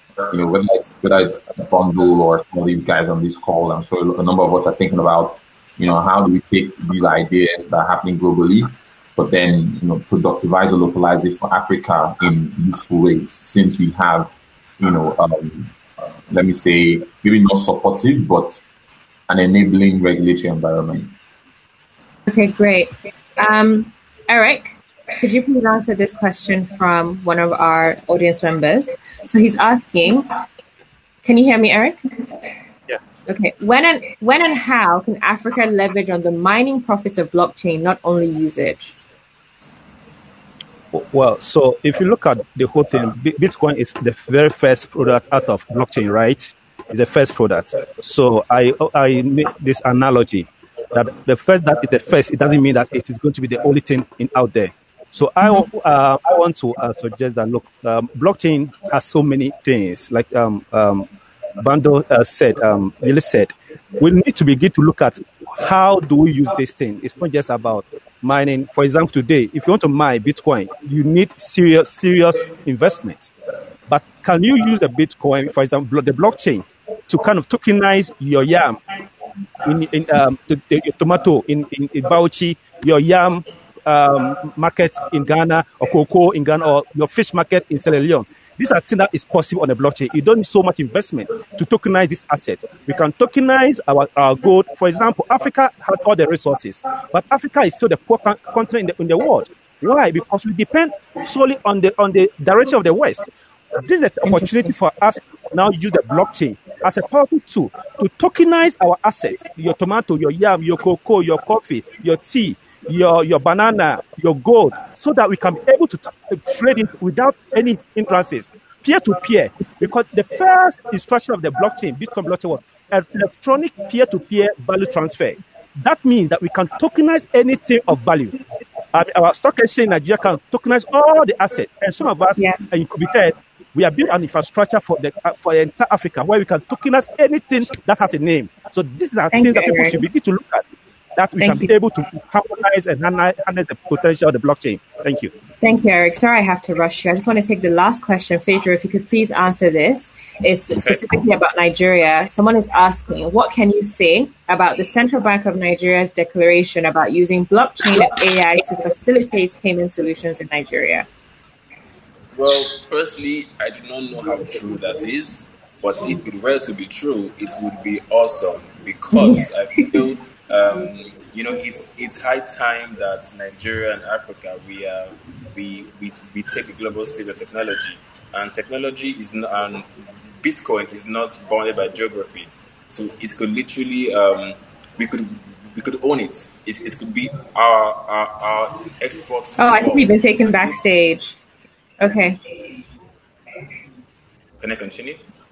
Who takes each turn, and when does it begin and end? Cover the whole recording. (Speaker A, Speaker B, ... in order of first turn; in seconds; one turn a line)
Speaker A: 0.3-15.7
Speaker A: 16.3-18.6
Speaker A: 19.3-21.1
Speaker B: 22.3-30.3
Speaker B: 31.2-32.0
Speaker B: 33.3-39.0
Speaker C: 40.9-61.1
Speaker C: 61.6-73.3
Speaker C: 73.9-78.8
Speaker C: 79.6-128.4
Speaker C: 128.9-140.6
Speaker B: 139.3-140.0
Speaker C: 141.2-145.3
Speaker B: 141.4-141.7
Speaker B: 145.6-161.1
Speaker D: 162.3-179.9
Speaker B: 169.2-169.9
Speaker D: 180.4-190.1
Speaker B: 189.6-191.4
Speaker B: 192.0-192.4
Speaker D: 194.6-195.2